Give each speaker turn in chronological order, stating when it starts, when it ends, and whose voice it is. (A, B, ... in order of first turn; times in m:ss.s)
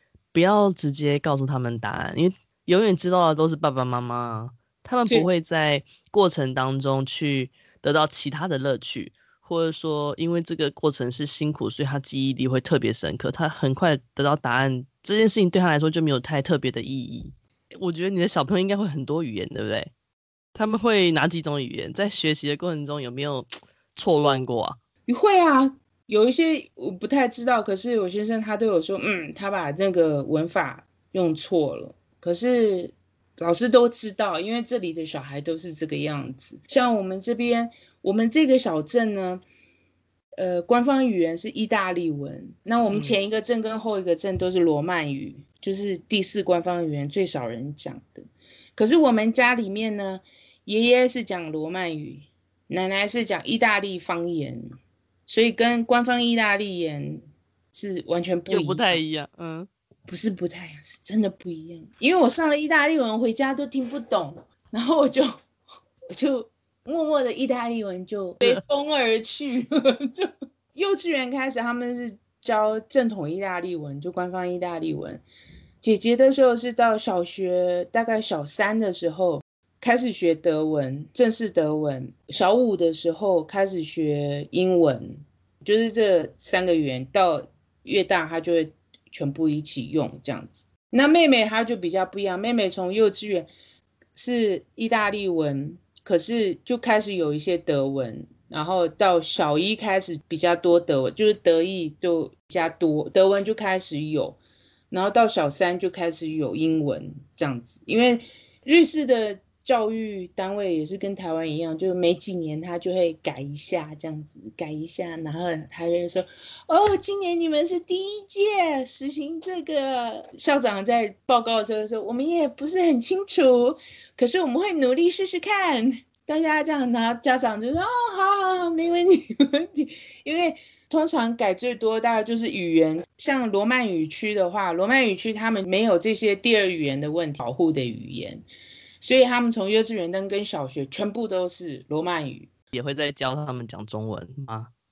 0:00.3-0:19.9 A
0:20.6-0:24.8 A
0:25.1-0:39.4 B
0:40.4-0:54.7 B
0:42.9-0:43.2 A
0:55.3-0:59.0 B
0:58.5-0:59.7 A
1:00.1-1:05.3 B
1:06.1-1:15.2 B
1:15.8-1:33.5 B
1:34.2-1:44.4 B
1:44.9-2:18.4 B
2:19.0-2:22.5 B
2:22.7-2:24.7 A